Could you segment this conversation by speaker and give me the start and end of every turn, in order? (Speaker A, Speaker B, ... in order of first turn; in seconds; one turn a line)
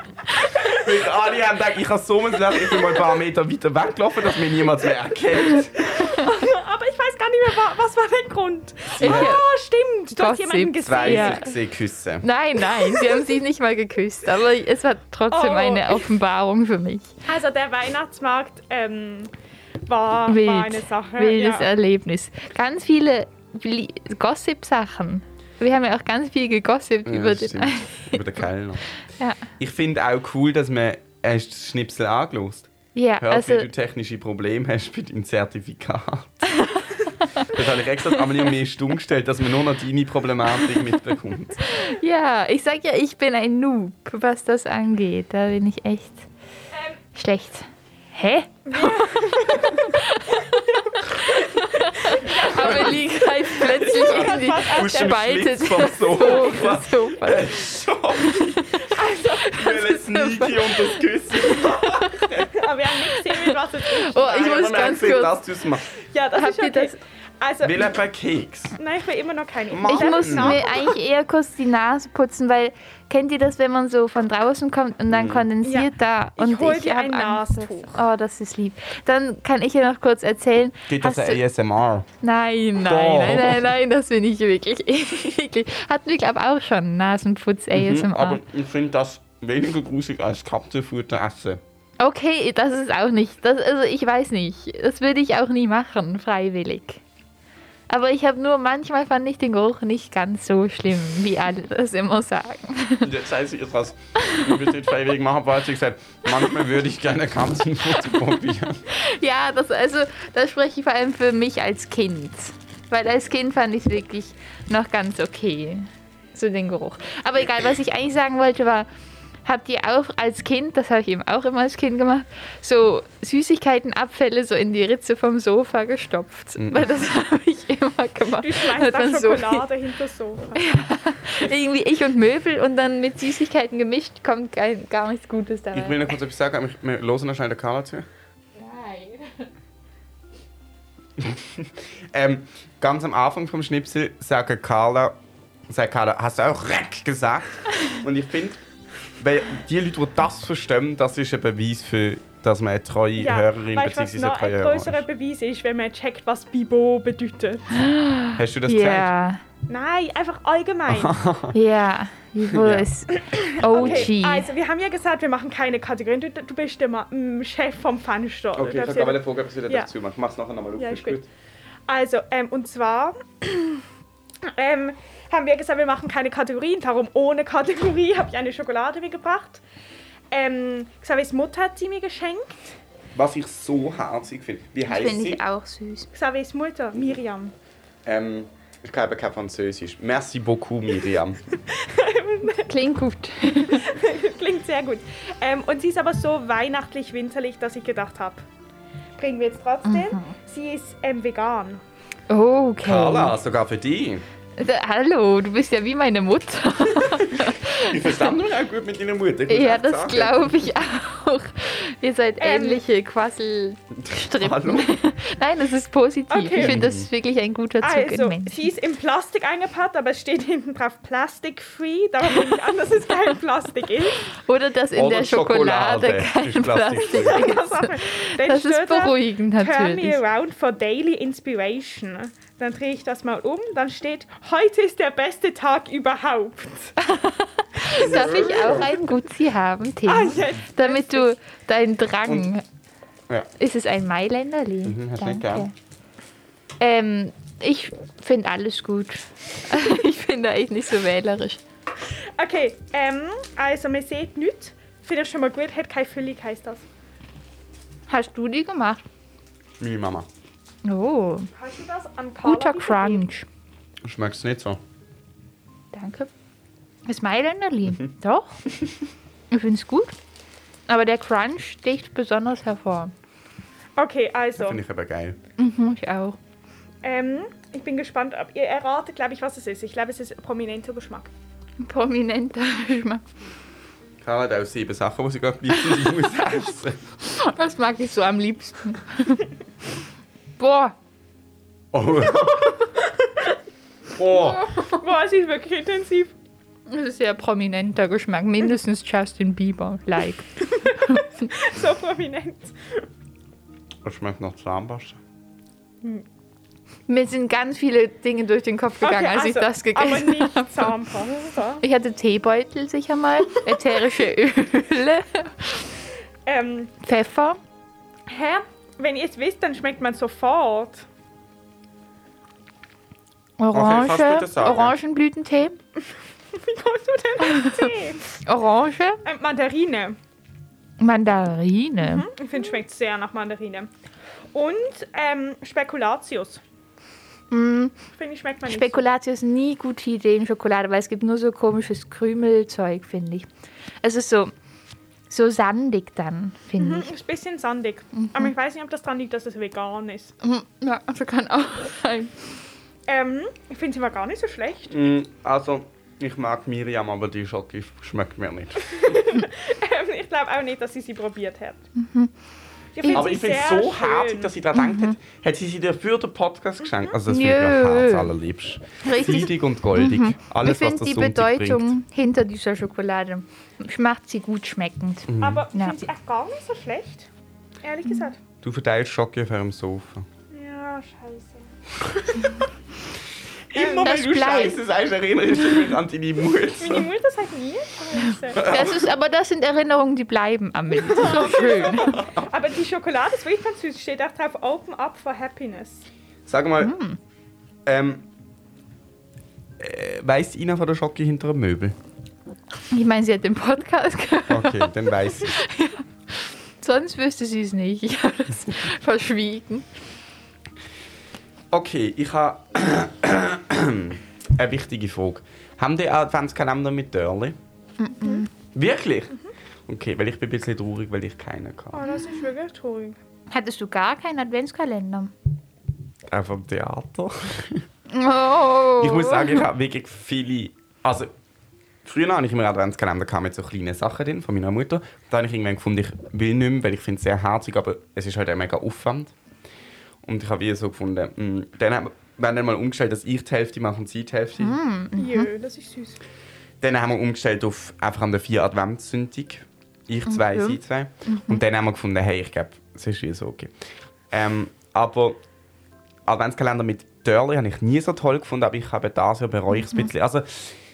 Speaker A: 0.5-6.0
Speaker B: 5.6-11.5
Speaker A: 9.0-9.3
Speaker C: 9.0-9.4
Speaker C: 10.1-11.4
Speaker A: 10.8-12.2
Speaker C: 12.2-17.1
Speaker B: 15.3-16.1
Speaker B: 17.3-19.3
Speaker B: 19.9-21.7
Speaker C: 20.3-28.2
Speaker A: 27.1-28.9
Speaker A: 29.6-36.7
Speaker C: 32.9-33.7
Speaker A: 37.4-41.7
Speaker C: 41.7-46.3
Speaker C: 47.1-57.5
Speaker B: 48.7-50.0
Speaker B: 50.5-55.3
Speaker A: 52.3-53.0
Speaker A: 53.6-58.7
Speaker B: 56.1-56.7
Speaker B: 58.9-59.9
Speaker A: 59.5-62.6
Speaker C: 59.7-62.5
Speaker B: 62.5-65.2
Speaker C: 63.3-65.4
Speaker A: 64.3-65.8
Speaker B: 66.0-67.9
Speaker C: 66.3-67.0
Speaker A: 67.6-68.8
Speaker B: 68.8-70.9
Speaker A: 69.7-70.6
Speaker C: 69.9-81.4
Speaker A: 75.1-75.5
Speaker B: 75.6-78.0
Speaker A: 80.9-82.1
Speaker C: 82.2-88.4
Speaker A: 82.8-83.7
Speaker A: 87.7-91.6
Speaker C: 92.0-97.0
Speaker C: 97.9-103.1
Speaker A: 103.0-108.8
Speaker C: 108.9-118.9
Speaker C: 119.5-129.7
Speaker A: 126.6-126.9
Speaker B: 128.4-130.6
Speaker C: 130.6-136.2
Speaker A: 135.7-138.1
Speaker C: 138.6-139.3
Speaker A: 141.2-145.2
Speaker A: 145.7-148.6
Speaker A: 149.2-155.0
Speaker B: 153.2-157.7
Speaker C: 157.7-159.4
Speaker A: 158.4-159.1
Speaker B: 159.7-161.2
Speaker A: 160.9-161.6
Speaker C: 161.5-164.5
Speaker A: 162.5-162.9
Speaker B: 163.2-169.9
Speaker A: 163.7-164.1
Speaker A: 168.6-171.3
Speaker B: 170.8-171.2
Speaker B: 171.9-173.8
Speaker B: 174.4-179.6
Speaker B: 180.3-182.8
Speaker A: 183.2-185.4
Speaker C: 184.9-186.1
Speaker B: 186.1-187.5
Speaker A: 188.1-191.4
Speaker B: 191.7-192.7
Speaker C: 192.5-193.9
Speaker B: 193.7-198.4
Speaker B: 199.2-201.8
Speaker C: 199.9-200.3
Speaker C: 202.3-203.3
Speaker A: 202.8-204.2
Speaker C: 204.6-208.3
Speaker A: 207.1-210.7
Speaker C: 209.5-218.7
Speaker B: 212.4-212.8
Speaker A: 214.1-214.9
Speaker B: 216.3-216.8
Speaker A: 216.6-217.1
Speaker B: 217.8-224.3
Speaker C: 224.4-230.2
Speaker A: 224.9-227.5
Speaker B: 227.1-236.9
Speaker C: 237.0-242.6
Speaker A: 238.0-238.9
Speaker B: 238.0-239.0
Speaker B: 240.1-241.3
Speaker C: 243.6-245.7
Speaker A: 244.8-245.7
Speaker C: 246.8-251.6
Speaker B: 252.4-256.9
Speaker C: 258.1-259.0
Speaker A: 259.8-260.3
Speaker C: 260.9-261.5
Speaker B: 261.6-263.3
Speaker C: 262.4-263.5
Speaker A: 264.0-264.8
Speaker C: 265.9-266.3
Speaker C: 267.1-268.6
Speaker C: 269.5-270.2
Speaker C: 270.9-273.1
Speaker B: 274.0-274.8
Speaker A: 274.6-275.4
Speaker C: 275.6-276.4
Speaker B: 277.0-281.3
Speaker C: 281.8-283.2
Speaker A: 284.2-287.0
Speaker C: 287.2-289.5
Speaker C: 290.6-290.9
Speaker A: 291.9-292.9
Speaker A: 294.1-294.7
Speaker C: 294.3-295.0
Speaker B: 294.8-296.3
Speaker C: 296.9-300.5
Speaker B: 300.8-303.0
Speaker A: 304.0-305.2
Speaker C: 307.1-310.9
Speaker B: 309.0-311.8
Speaker C: 311.8-315.9
Speaker B: 316.4-316.9
Speaker C: 317.0-317.6
Speaker B: 318.3-321.1
Speaker C: 323.6-325.8
Speaker A: 323.7-325.0
Speaker B: 326.5-328.2
Speaker C: 327.5-327.9
Speaker C: 328.4-329.2
Speaker B: 329.2-330.2
Speaker C: 331.0-332.3
Speaker B: 332.0-333.9
Speaker B: 334.5-336.6
Speaker C: 337.5-338.0
Speaker B: 338.2-339.1
Speaker C: 338.6-343.5
Speaker C: 344.0-344.5
Speaker C: 345.3-347.1
Speaker B: 346.8-350.3
Speaker C: 348.1-348.5
Speaker C: 350.4-352.3
Speaker B: 353.1-354.9
Speaker A: 354.9-359.4
Speaker B: 358.9-361.8
Speaker C: 362.0-362.3
Speaker B: 362.9-364.5
Speaker C: 363.0-363.3
Speaker A: 363.1-371.9
Speaker C: 364.8-365.1
Speaker C: 367.3-368.3
Speaker C: 369.0-376.0
Speaker A: 375.3-375.7
Speaker B: 375.4-377.3
Speaker B: 377.8-378.4
Speaker A: 378.6-380.3
Speaker B: 380.5-381.7
Speaker A: 383.7-387.1
Speaker B: 383.7-384.8
Speaker C: 384.0-384.8
Speaker B: 386.8-388.9
Speaker A: 388.6-389.0
Speaker C: 388.6-392.2
Speaker B: 391.1-396.1
Speaker A: 392.1-392.5
Speaker A: 396.5-396.9
Speaker C: 396.8-397.2
Speaker A: 397.9-398.2
Speaker A: 399.8-402.0
Speaker C: 402.9-406.0
Speaker A: 404.5-405.6
Speaker C: 406.8-409.9
Speaker A: 411.7-417.6
Speaker C: 418.0-418.5
Speaker A: 418.7-419.4
Speaker A: 419.9-422.0
Speaker B: 421.9-423.2
Speaker C: 423.5-425.3
Speaker A: 426.3-427.8
Speaker C: 428.1-429.7
Speaker A: 429.0-431.3
Speaker A: 432.0-439.3
Speaker A: 440.2-444.8
Speaker C: 444.6-445.5
Speaker B: 445.2-446.2
Speaker A: 446.8-453.7
Speaker C: 450.3-451.6
Speaker A: 454.3-455.4
Speaker A: 456.3-460.8
Speaker C: 459.7-460.1